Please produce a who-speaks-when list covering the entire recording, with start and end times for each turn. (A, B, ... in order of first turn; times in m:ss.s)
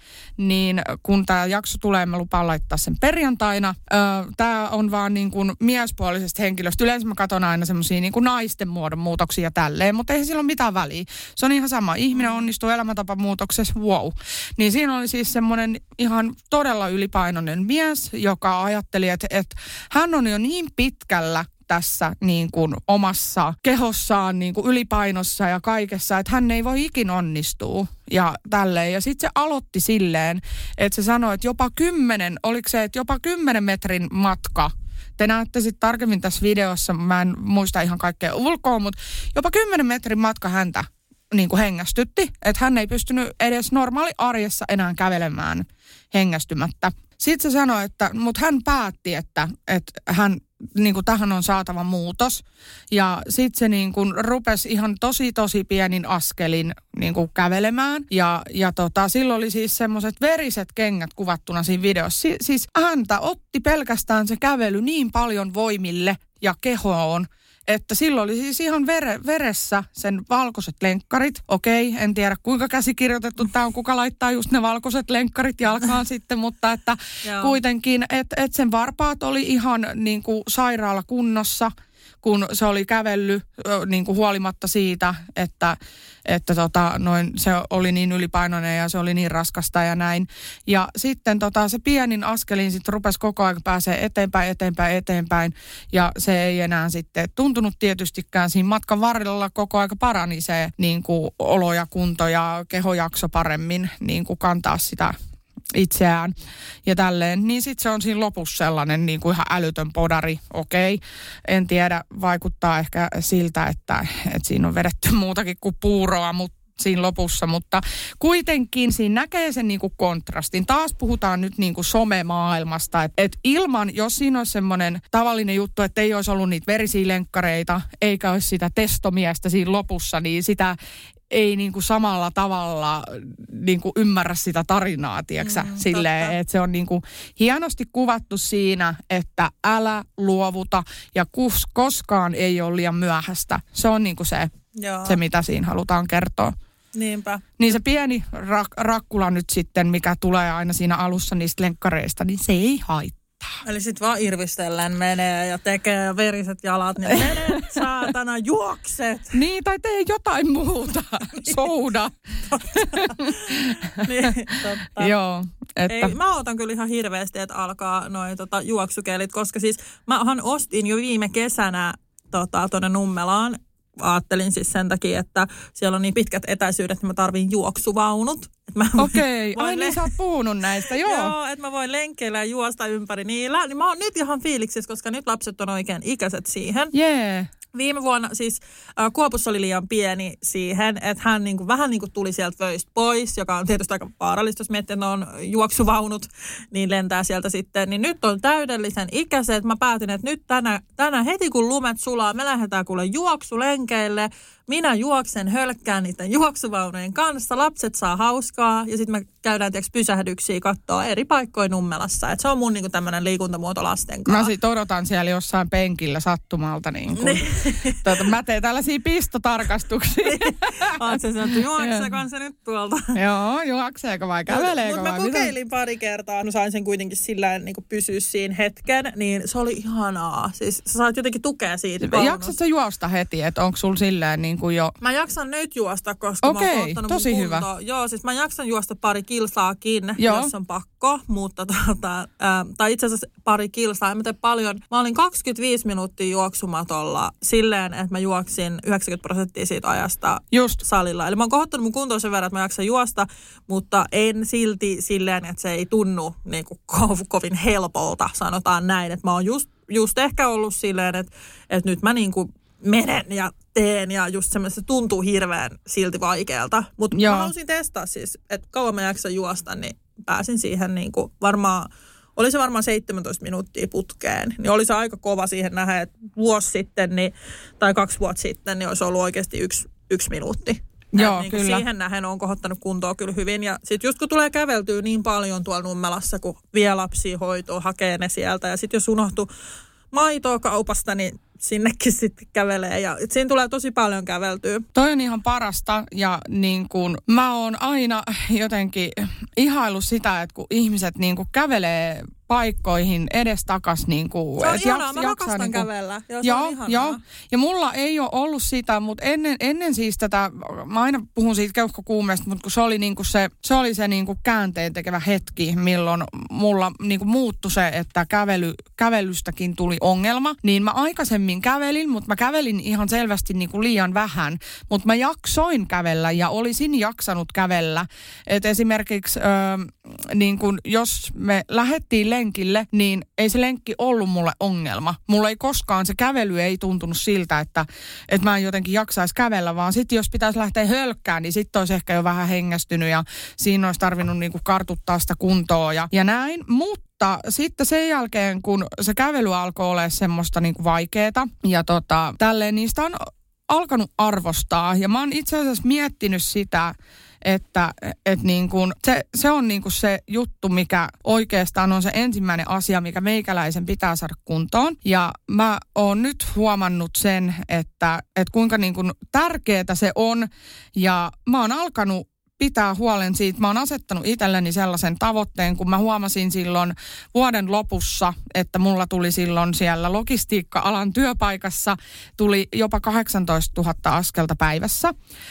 0:00.4-1:21.7 A
0:12.1-0:12.5 B
1:17.2-1:17.6 B
1:22.2-1:45.1 A
1:45.7-1:46.3 A
1:46.8-2:10.8 A
2:11.3-2:24.5 A
2:15.4-2:16.3 B
2:24.8-2:25.2 B
2:25.0-2:26.5 A
2:26.9-2:27.4 B
2:27.6-2:33.6 A
2:33.6-2:39.3 B
2:37.3-2:37.8 A
2:39.3-2:42.1 A
2:41.3-2:41.6 B
2:42.5-2:45.1 B
2:42.7-2:43.6 A
2:45.0-2:46.1 A
2:45.9-3:00.1 B
2:59.0-3:01.3 A
3:01.0-3:06.9 B
3:06.9-3:07.5 A
3:07.7-3:34.5 B
3:34.3-3:37.4 A
3:37.2-3:38.2 B
3:38.0-3:40.8 A
3:40.2-3:43.2 B
3:41.8-3:42.1 A
3:43.2-3:45.5 A
3:44.5-3:52.5 B
3:52.0-3:54.9 A
3:55.0-4:49.5 B
3:56.4-3:57.6 A
4:00.2-4:00.5 A
4:10.5-4:10.8 A
4:27.1-4:27.5 A
4:41.2-4:41.8 A
4:50.1-4:54.8 B
4:54.9-5:05.8 A
5:04.6-5:07.2 B
5:06.4-5:56.9 A
5:57.4-6:25.1 A